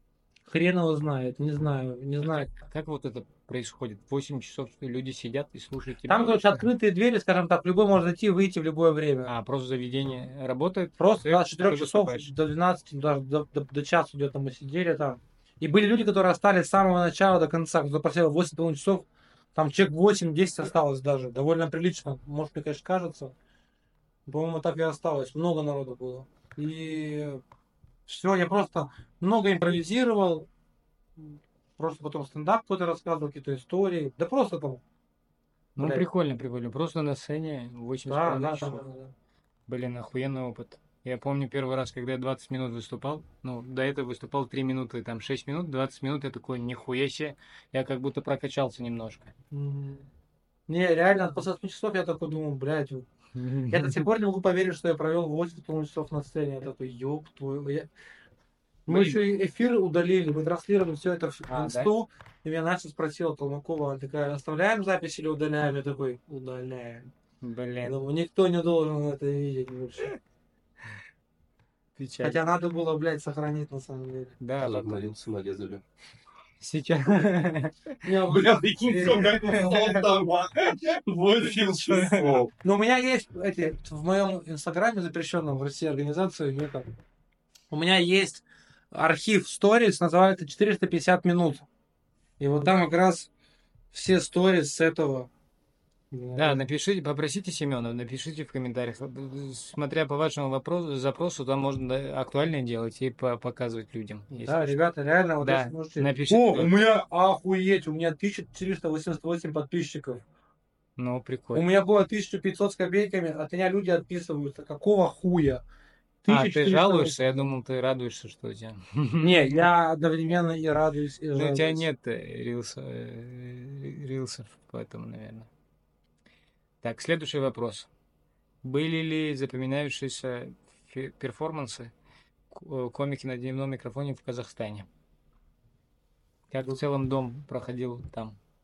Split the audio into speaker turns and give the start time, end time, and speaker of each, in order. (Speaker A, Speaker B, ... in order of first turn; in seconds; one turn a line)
Speaker A: 0.5-2.5
Speaker B: 2.2-6.6
Speaker A: 6.1-9.3
Speaker B: 9.2-12.3
Speaker A: 11.0-23.3
Speaker A: 24.2-27.4
Speaker A: 28.1-30.5
Speaker A: 31.2-34.8
Speaker B: 35.8-38.8
Speaker A: 35.8-36.1
Speaker A: 38.0-39.1
Speaker B: 39.7-49.3
Speaker A: 49.5-50.1
Speaker A: 50.7-53.1
Speaker B: 53.3-54.0
Speaker A: 53.7-57.9
Speaker B: 58.9-59.2
Speaker A: 58.9-67.1
Speaker B: 61.5-61.9
Speaker B: 67.4-67.9
Speaker A: 67.8-70.1
Speaker B: 72.0-72.4
Speaker A: 72.2-74.3
Speaker B: 74.4-75.0
Speaker C: 74.6-75.8
Speaker B: 76.6-78.0
Speaker A: 78.0-79.8
Speaker C: 78.3-82.5
Speaker B: 79.3-80.0
Speaker B: 81.7-82.5
Speaker A: 82.6-86.9
Speaker A: 87.7-91.7
Speaker A: 92.4-93.3
Speaker A: 93.9-95.3
Speaker A: 96.1-96.6
Speaker B: 96.3-104.8
Speaker A: 104.3-110.2
Speaker B: 105.4-106.7
Speaker B: 111.0-111.7
Speaker A: 111.5-115.6
Speaker A: 116.2-117.2
Speaker B: 116.3-119.6
Speaker A: 119.2-121.8
Speaker B: 121.3-125.5
Speaker B: 126.8-127.9
Speaker B: 128.6-131.9
Speaker B: 132.5-134.9
Speaker B: 136.5-138.4